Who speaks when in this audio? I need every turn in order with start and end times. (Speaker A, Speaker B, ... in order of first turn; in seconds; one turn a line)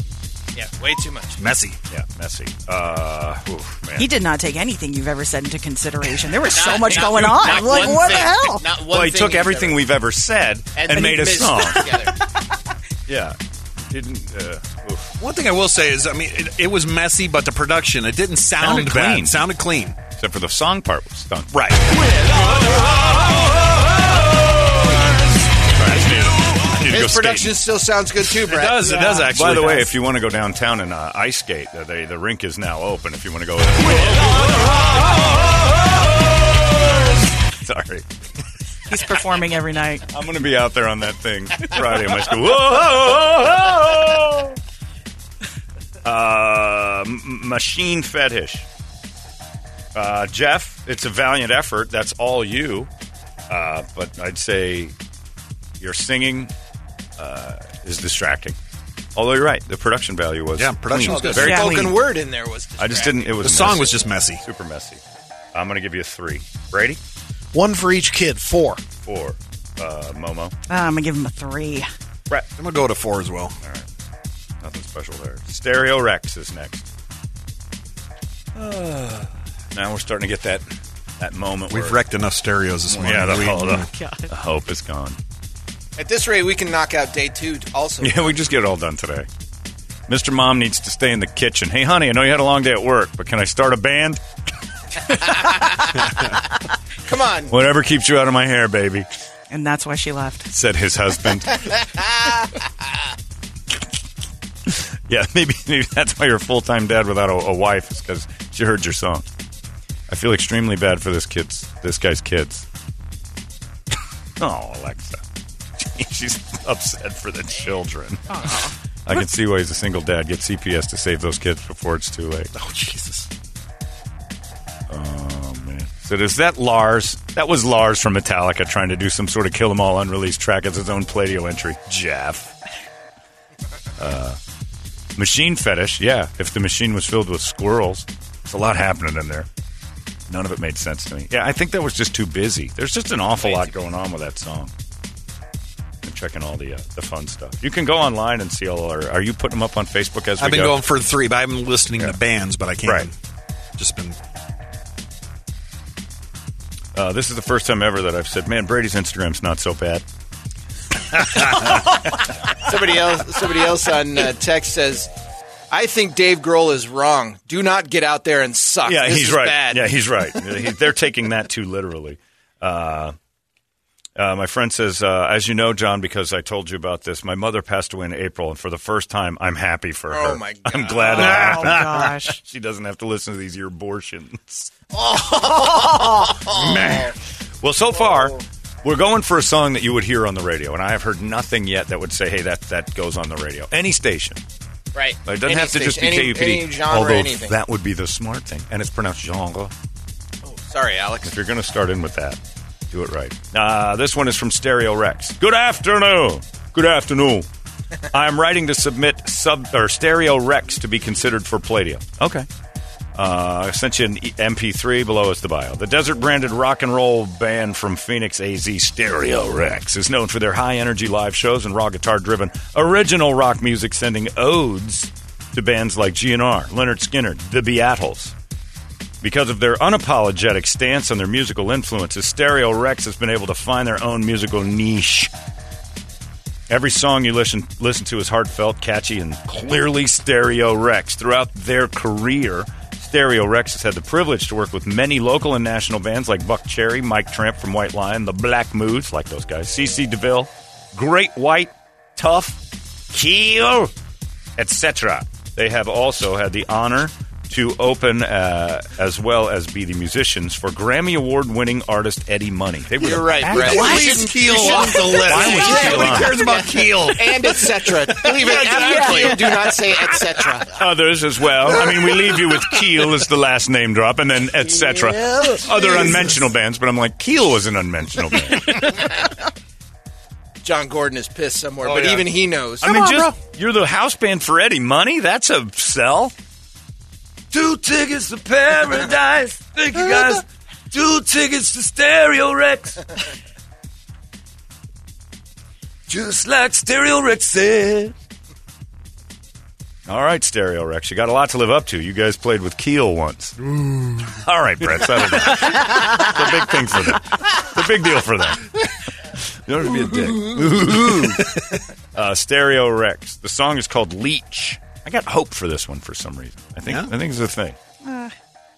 Speaker A: 0.5-1.4
Speaker B: 1.4-1.8
Speaker C: 1.9-4.1
Speaker D: 4.0-8.7
Speaker A: 6.5-9.8
Speaker C: 6.9-7.8
Speaker C: 8.8-11.9
Speaker A: 10.8-12.2
Speaker C: 13.1-13.4
Speaker C: 13.9-15.1
Speaker B: 15.2-20.0
Speaker C: 18.6-19.4
Speaker C: 20.1-21.8
Speaker B: 21.5-21.9
Speaker C: 25.7-27.6
Speaker A: 26.8-29.1
Speaker B: 28.3-29.9
Speaker C: 29.3-35.0
Speaker D: 29.3-29.7
Speaker C: 36.6-38.1
Speaker D: 38.9-40.0
Speaker C: 40.1-44.6
Speaker C: 46.0-48.7
Speaker C: 49.9-52.9
Speaker C: 53.5-54.9
Speaker C: 55.8-56.5
Speaker C: 57.2-58.6
Speaker C: 59.1-62.0
Speaker B: 60.6-61.9
Speaker A: 61.0-63.4
Speaker D: 61.4-62.0
Speaker C: 62.8-65.0
Speaker B: 63.4-64.4
Speaker C: 65.5-67.0
Speaker E: 67.5-68.8
Speaker C: 69.0-70.5
Speaker D: 70.7-71.9
Speaker B: 72.6-73.5
Speaker C: 73.6-73.9
Speaker C: 74.6-76.8
Speaker C: 78.5-80.7
Speaker C: 81.2-82.0
Speaker B: 81.7-83.9
Speaker C: 82.9-85.2
Speaker D: 83.7-84.3
Speaker A: 86.0-88.4
Speaker C: 88.0-89.3
Speaker C: 90.1-94.2
Speaker A: 95.1-96.2
Speaker A: 97.0-97.5
Speaker C: 97.5-99.1
Speaker D: 99.5-100.5
Speaker C: 100.5-101.6
Speaker A: 101.7-102.5
Speaker C: 104.7-109.2
Speaker C: 110.1-112.7
Speaker C: 114.4-115.2
Speaker C: 115.8-122.5
Speaker D: 118.3-118.7
Speaker B: 122.5-123.3
Speaker C: 124.9-132.5
Speaker C: 134.0-134.4
Speaker C: 135.2-139.5
Speaker C: 140.3-144.7
Speaker A: 143.4-143.7
Speaker C: 146.0-150.8
Speaker B: 150.4-153.1
Speaker C: 152.8-153.1
Speaker B: 153.8-154.2
Speaker C: 156.9-160.0
Speaker C: 161.1-161.9
Speaker A: 162.5-165.1
Speaker A: 165.7-170.0
Speaker C: 168.8-173.2
Speaker C: 174.2-184.7
Speaker A: 180.1-181.7
Speaker D: 181.1-182.4
Speaker A: 184.9-187.1
Speaker C: 186.4-187.1
Speaker C: 187.6-194.4
Speaker A: 194.9-197.6
Speaker C: 195.2-199.7
Speaker A: 200.4-201.3
Speaker C: 201.2-202.4
Speaker C: 202.9-207.5
Speaker C: 208.1-212.5
Speaker C: 213.1-228.3
Speaker C: 229.2-235.3
Speaker C: 236.7-252.6
Speaker C: 253.1-253.9
Speaker C: 254.6-264.1
Speaker A: 263.0-270.8
Speaker B: 263.2-269.1
Speaker D: 263.6-265.4
Speaker C: 265.2-266.4
Speaker D: 268.4-269.7
Speaker C: 270.7-278.9
Speaker E: 274.6-276.4
Speaker A: 280.6-283.1
Speaker B: 281.8-282.3
Speaker C: 282.8-286.3
Speaker E: 282.9-283.3
Speaker C: 287.5-293.1
Speaker C: 296.1-298.1
Speaker C: 300.1-308.8
Speaker C: 309.5-311.5
Speaker B: 310.9-311.8
Speaker C: 312.1-317.8
Speaker B: 316.9-317.1
Speaker D: 318.0-318.3